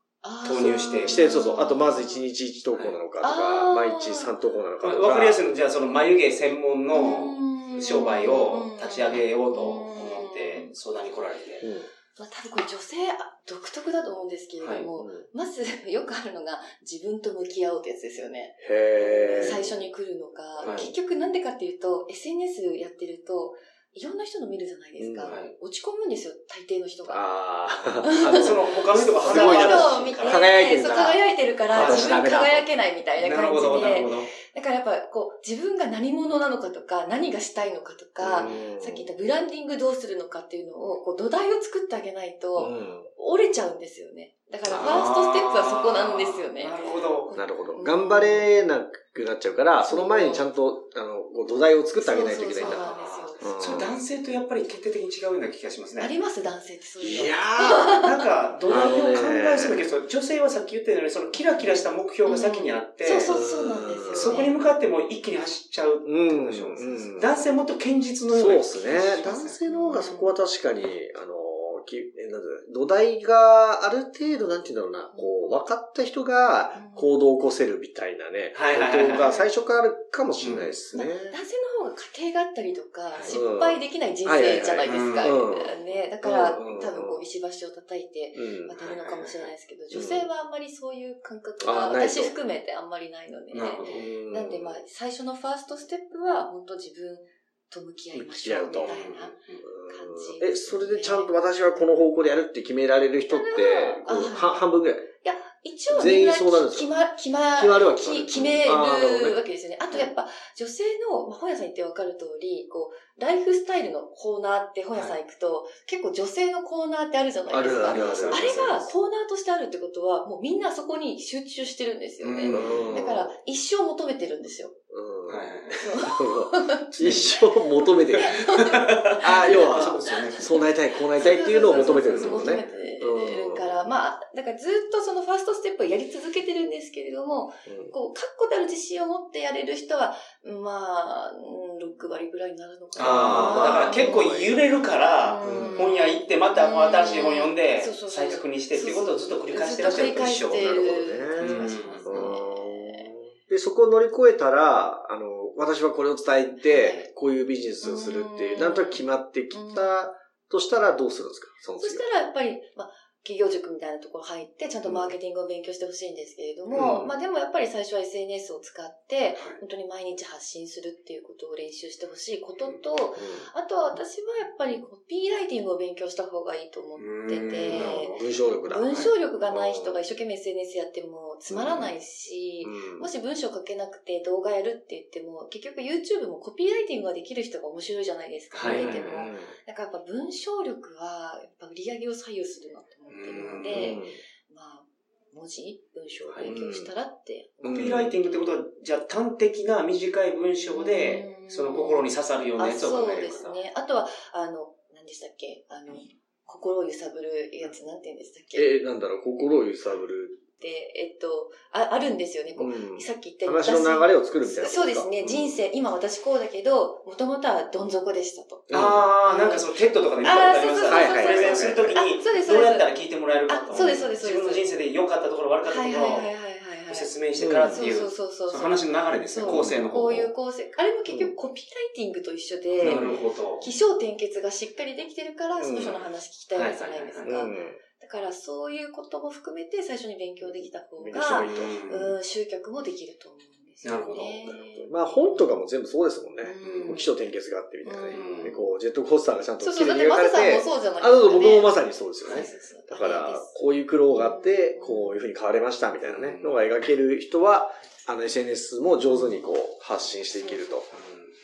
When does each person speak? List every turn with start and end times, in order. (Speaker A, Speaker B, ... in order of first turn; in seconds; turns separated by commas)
Speaker A: 0.2-2.2, Speaker B: 0.4-1.4, Speaker C: 1.0-5.4, Speaker B: 2.7-3.0, Speaker A: 3.2-4.3, Speaker B: 4.8-11.7, Speaker A: 6.9-10.7, Speaker C: 11.6-11.9, Speaker A: 12.2-18.6, Speaker B: 14.6-14.9, Speaker C: 15.0-15.3, Speaker C: 18.6-19.7, Speaker B: 19.0-19.6, Speaker A: 19.2-27.2, Speaker C: 20.6-20.8, Speaker B: 20.6-20.9, Speaker C: 25.0-25.4, Speaker B: 25.2-25.5, Speaker C: 27.1-32.7, Speaker A: 28.0-28.6, Speaker B: 28.2-31.1, Speaker A: 29.2-48.5, Speaker B: 31.7-32.1, Speaker B: 33.2-34.3, Speaker C: 38.2-39.1, Speaker C: 42.5-43.1, Speaker C: 44.7-45.0, Speaker B: 44.7-47.3, Speaker C: 47.3-54.0, Speaker A: 49.8-50.5, Speaker A: 52.0-53.6, Speaker B: 52.6-56.1, Speaker A: 56.0-58.1, Speaker C: 57.0-58.0, Speaker B: 57.9-63.3, Speaker C: 58.7-59.8, Speaker A: 62.2-64.5, Speaker C: 63.3-64.4, Speaker B: 64.1-69.6, Speaker C: 66.0-67.3, Speaker A: 66.8-67.4, Speaker C: 68.3-81.4, Speaker A: 69.7-70.3, Speaker A: 75.1-75.5, Speaker A: 76.8-77.1, Speaker B: 78.5-79.3, Speaker A: 79.1-79.5, Speaker B: 80.4-80.7, Speaker A: 80.9-101.3, Speaker C: 83.3-87.2, Speaker B: 84.8-85.4, Speaker C: 88.3-88.8, Speaker B: 88.8-89.5, Speaker C: 89.9-90.3, Speaker C: 91.6-92.3, Speaker B: 93.5-94.0, Speaker C: 93.9-94.8, Speaker B: 98.1-99.6, Speaker C: 98.4-99.0, Speaker C: 99.6-105.1, Speaker A: 103.3-104.7, Speaker A: 105.2-124.8, Speaker C: 105.9-106.9, Speaker C: 107.5-109.4, Speaker C: 117.5-118.9, Speaker B: 117.8-118.6, Speaker B: 122.2-123.0, Speaker C: 122.5-123.3, Speaker C: 124.9-128.4, Speaker B: 125.3-125.9, Speaker A: 125.8-130.6, Speaker B: 127.0-127.3, Speaker B: 128.1-130.6, Speaker C: 129.2-133.8, Speaker B: 131.1-132.6, Speaker A: 131.2-144.2, Speaker C: 137.7-137.9, Speaker B: 143.0-152.3, Speaker C: 143.0-144.6, Speaker A: 145.2-153.1, Speaker C: 145.4-145.9, Speaker C: 149.9-162.0, Speaker A: 156.6-157.1, Speaker A: 157.8-160.0, Speaker A: 161.8-198.2, Speaker C: 166.7-167.1, Speaker B: 166.7-167.1, Speaker C: 173.2-173.5, Speaker B: 177.0-178.3, Speaker C: 177.7-180.0, Speaker C: 181.5-181.9, Speaker C: 182.6-183.1, Speaker B: 188.5-189.2, Speaker C: 188.6-189.5, Speaker B: 193.1-194.0, Speaker C: 193.3-194.2, Speaker C: 196.5-196.9, Speaker C: 197.6-198.1, Speaker B: 197.6-203.6, Speaker A: 200.8-208.7, Speaker C: 208.6-210.4, Speaker A: 210.6-222.9, Speaker C: 212.6-215.1, Speaker C: 218.7-219.1, Speaker B: 218.7-226.3, Speaker C: 220.2-222.0, Speaker A: 223.5-224.6, Speaker A: 225.7-227.1, Speaker B: 226.9-230.3, Speaker C: 227.4-227.8, Speaker A: 227.7-245.6, Speaker C: 229.4-230.2, Speaker C: 231.1-231.3, Speaker B: 232.8-233.7, Speaker C: 232.8-233.2, Speaker C: 235.6-236.0, Speaker B: 236.5-237.3, Speaker C: 237.2-237.8, Speaker C: 241.0-241.8, Speaker B: 241.2-242.2, Speaker B: 243.8-244.5, Speaker C: 244.5-260.9, Speaker A: 246.4-248.6, Speaker B: 246.6-247.0, Speaker B: 248.1-248.6, Speaker A: 249.6-253.5, Speaker A: 254.1-255.2, Speaker B: 256.0-256.6, Speaker A: 259.0-259.5, Speaker A: 260.3-260.7, Speaker B: 260.9-261.3